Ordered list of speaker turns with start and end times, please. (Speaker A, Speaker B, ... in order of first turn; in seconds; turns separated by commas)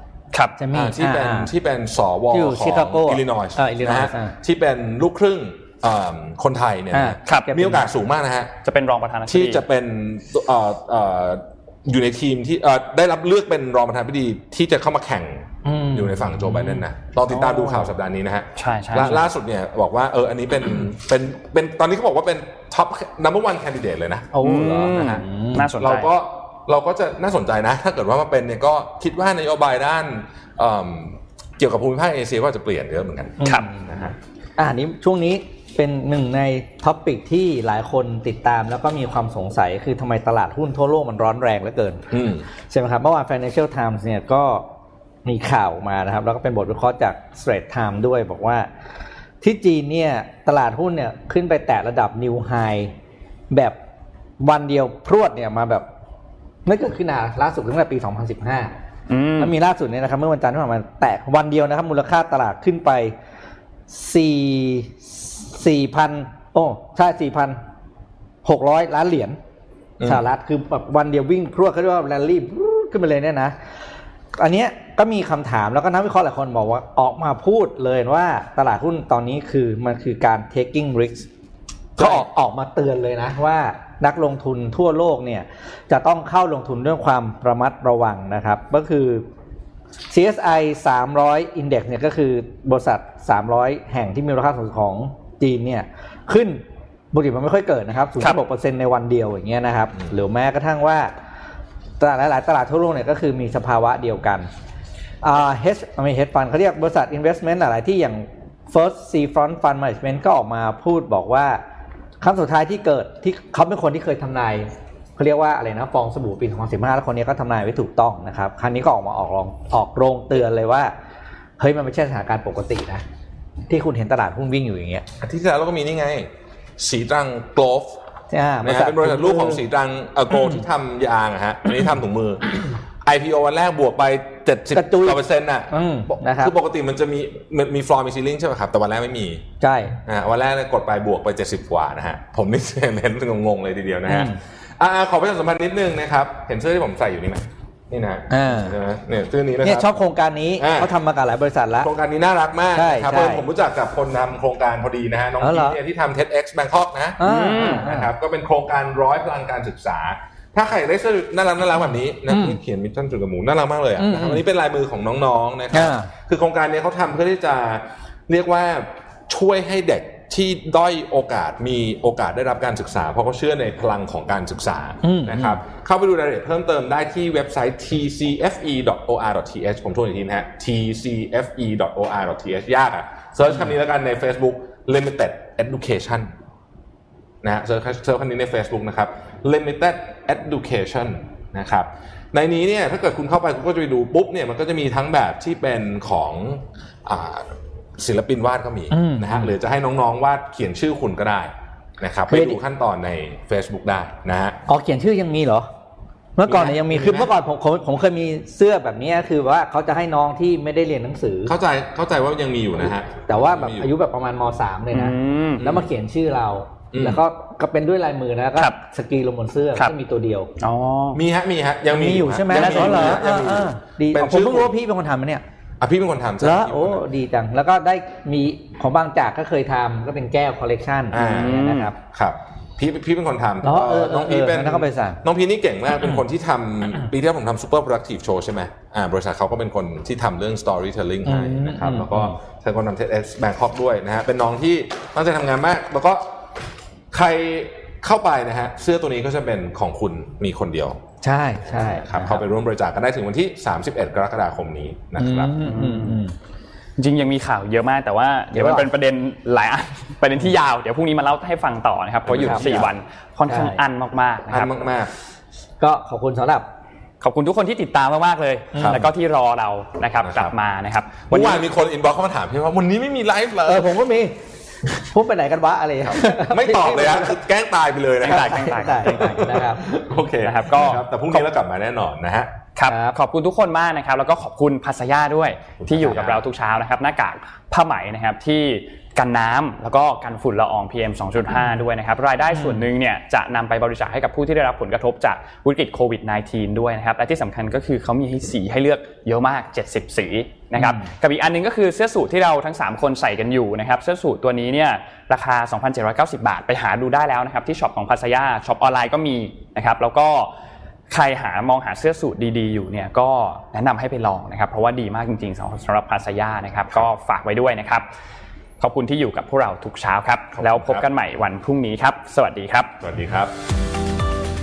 Speaker A: 0.3-0.6, Speaker B: 0.6-1.5, Speaker C: 0.7-8.5, Speaker B: 2.3-4.3, Speaker B: 6.9-7.9, Speaker A: 7.2-7.5, Speaker A: 8.6-9.6, Speaker C: 9.3-34.1, Speaker B: 15.6-16.8, Speaker A: 18.6-19.2, Speaker B: 24.3-25.7, Speaker A: 24.4-26.1, Speaker B: 33.4-33.8, Speaker B: 34.6-42.1, Speaker C: 42.1-42.4, Speaker B: 42.7-44.6, Speaker B: 45.2-48.7, Speaker B: 49.4-52.9, Speaker B: 53.5-53.8, Speaker B: 54.4-55.9, Speaker B: 56.6-58.7, Speaker A: 59.1-59.5, Speaker B: 59.4-63.1, Speaker B: 63.9-67.6, Speaker B: 68.4-69.4, Speaker B: 70.0-73.5, Speaker B: 74.4-81.3, Speaker B: 82.0-89.2, Speaker B: 90.1-101.1, Speaker B: 102.0-104.5, Speaker B: 105.2-111.6, Speaker B: 112.2-120.9, Speaker B: 121.6-123.0, Speaker B: 123.7-125.0, Speaker C: 125.2-128.0, Speaker B: 128.3-129.6, Speaker C: 128.6-135.7, Speaker B: 134.7-136.5, Speaker C: 136.2-139.4, Speaker B: 139.6-140.0, Speaker C: 140.0-149.9, Speaker B: 144.1-144.4, Speaker B: 148.3-148.8, Speaker B: 149.6-151.9, Speaker C: 150.6-150.9, Speaker C: 151.8-186.3, Speaker B: 152.7-153.4, Speaker B: 155.4-155.8, Speaker B: 157.2-158.1, Speaker A: 157.2-157.9, Speaker B: 162.3-162.6, Speaker B: 164.0-164.4, Speaker B: 165.7-166.1, Speaker B: 175.0-175.6, Speaker C: 187.4-204.6, Speaker B: 198.9-199.5, Speaker B: 202.3-202.6, Speaker B: 204.7-205.7, Speaker B: 206.4-211.5, Speaker C: 206.4-207.3, Speaker C: 211.4-213.9, Speaker B: 213.3-220.5, Speaker A: 214.9-215.6, Speaker C: 215.6-215.8, Speaker C: 216.9-217.2, Speaker A: 220.6-221.2, Speaker C: 221.1-224.7, Speaker B: 221.9-225.4, Speaker A: 222.5-223.2, Speaker C: 225.8-227.0, Speaker B: 226.4-231.9, Speaker A: 231.1-231.9, Speaker C: 231.1-246.3, Speaker B: 233.6-235.2, Speaker B: 241.2-242.4, Speaker C: 247.1-251.0, Speaker B: 251.2-252.4, Speaker C: 251.7-255.5, Speaker B: 255.2-256.3, Speaker A: 255.6-256.2, Speaker A: 257.0-264.7, Speaker B: 258.5-258.9, Speaker C: 262.2-262.9, Speaker B: 262.4-262.7, Speaker B: 263.5-263.8, Speaker C: 264.5-265.1, Speaker B: 265.8-266.7, Speaker A: 267.2-271.6, Speaker B: 268.7-269.1, Speaker C: 268.8-269.1, Speaker C: 270.2-270.5, Speaker C: 271.3-274.0, Speaker B: 273.6-277.4, Speaker C: 276.1-282.5, Speaker A: 278.2-279.4, Speaker B: 278.3-279.8, Speaker A: 280.4-281.1, Speaker A: 282.8-310.5, Speaker B: 282.9-283.1, Speaker C: 285.8-286.4, Speaker B: 292.5-292.8, Speaker B: 300.7-301.1, Speaker A: 311.1-318.1, Speaker A: 318.8-322.9, Speaker C: 320.6-321.1, Speaker C: 323.0-323.5